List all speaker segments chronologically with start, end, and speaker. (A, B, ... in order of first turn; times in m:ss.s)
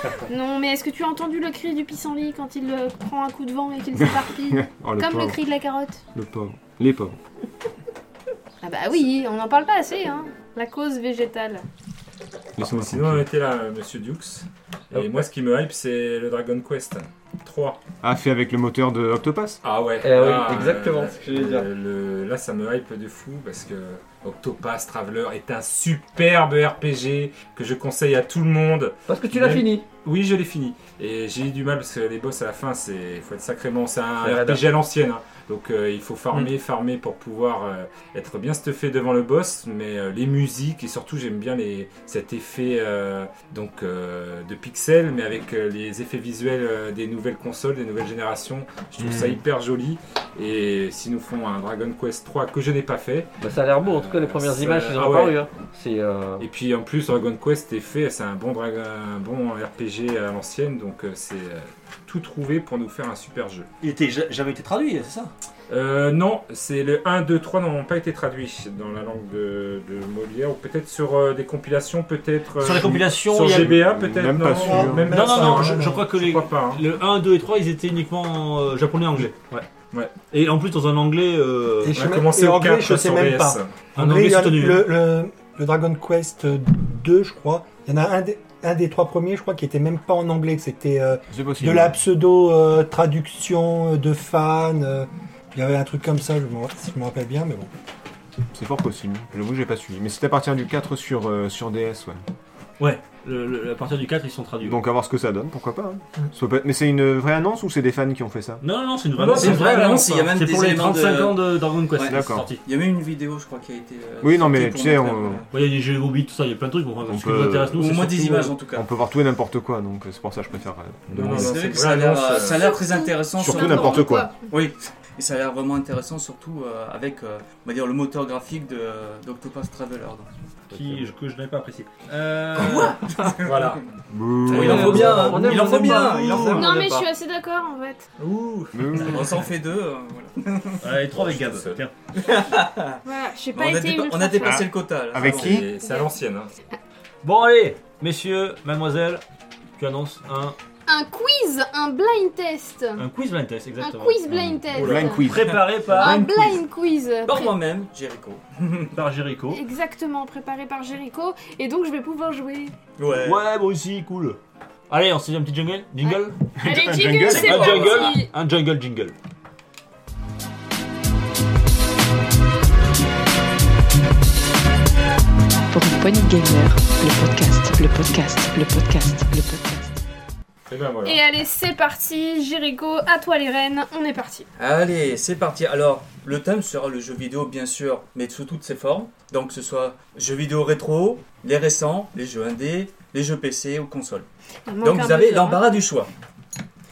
0:00.3-0:06.0 A
0:04.0-0:05.4 B
0:06.1-0:07.2 B
0:08.6-0:11.6 A
0:12.6-0:13.2 B
0:12.6-0:17.8 C
0:14.9-0:15.3 D
0:18.0-0:19.6 B
0:19.6-0:55.4 C
0:20.0-0:21.7 D
0:29.1-0:29.8 D
0:34.2-0:34.7 D
0:49.0-0:49.4 B
0:53.4-0:56.5 D
0:56.4-1:03.7 C
1:03.8-1:05.3 E
1:05.7-1:16.8 C
1:12.6-1:13.8 E
1:13.5-1:15.3 B
1:14.5-1:16.1 F
1:15.1-1:19.7 E
1:20.3-1:22.0 E
1:21.8-1:37.7 F
1:21.9-1:23.8 C
1:24.0-1:24.9 E
1:31.3-1:32.0 B
1:38.5-1:42.2 B
1:42.8-1:44.8 E
1:44.6-1:48.6 B
1:48.6-1:52.6 E
1:49.2-1:50.0 C
1:49.2-1:55.5 G
1:52.0-1:52.5 B
1:54.2-1:55.4 B
1:55.5-1:58.5 E
1:57.1-1:58.0 B
1:57.7-1:58.9 G
1:58.7-2:01.9 B
2:01.1-2:02.7 C
2:01.2-2:10.3 G
2:02.4-2:04.4 A
2:03.4-2:04.3 B
2:10.7-2:13.8 E
2:12.5-2:13.8 G
2:14.1-2:15.2 B
2:14.5-2:16.7 E
2:14.5-2:16.8 G
2:14.6-2:17.0 D
2:16.4-2:18.0 A
2:18.2-2:19.2 C
2:18.7-2:19.4 B
2:19.0-2:20.9 G
2:20.8-2:21.9 E
2:21.1-2:21.8 C
2:22.2-2:23.0 G
2:23.0-2:24.8 A
2:23.5-2:25.6 G
2:24.4-2:25.7 B
2:25.2-2:26.5 C
2:25.8-2:26.1 A
2:27.2-2:29.2 E
2:29.8-2:30.6 E
2:30.9-2:33.1 A
2:33.0-2:34.2 E
2:33.8-2:35.3 A
2:34.3-2:35.7 B
2:34.8-2:35.2 C
2:35.1-2:36.3 E
2:35.9-2:37.6 A
2:35.9-2:36.2 G
2:36.0-2:36.6 C
2:37.3-2:39.0 G
2:38.9-2:39.6 E
2:39.5-2:42.8 A
2:43.0-2:43.4 G
2:43.2-2:46.4 E
2:46.0-2:48.3 A
2:46.6-2:47.8 B
2:47.3-2:49.2 E
2:47.3-2:48.2 G
2:55.7-2:59.9 H
3:00.7-3:01.2 C
3:01.0-3:04.5 A
3:04.6-3:14.3 G
3:14.7-3:15.8 A
3:14.8-3:16.1 G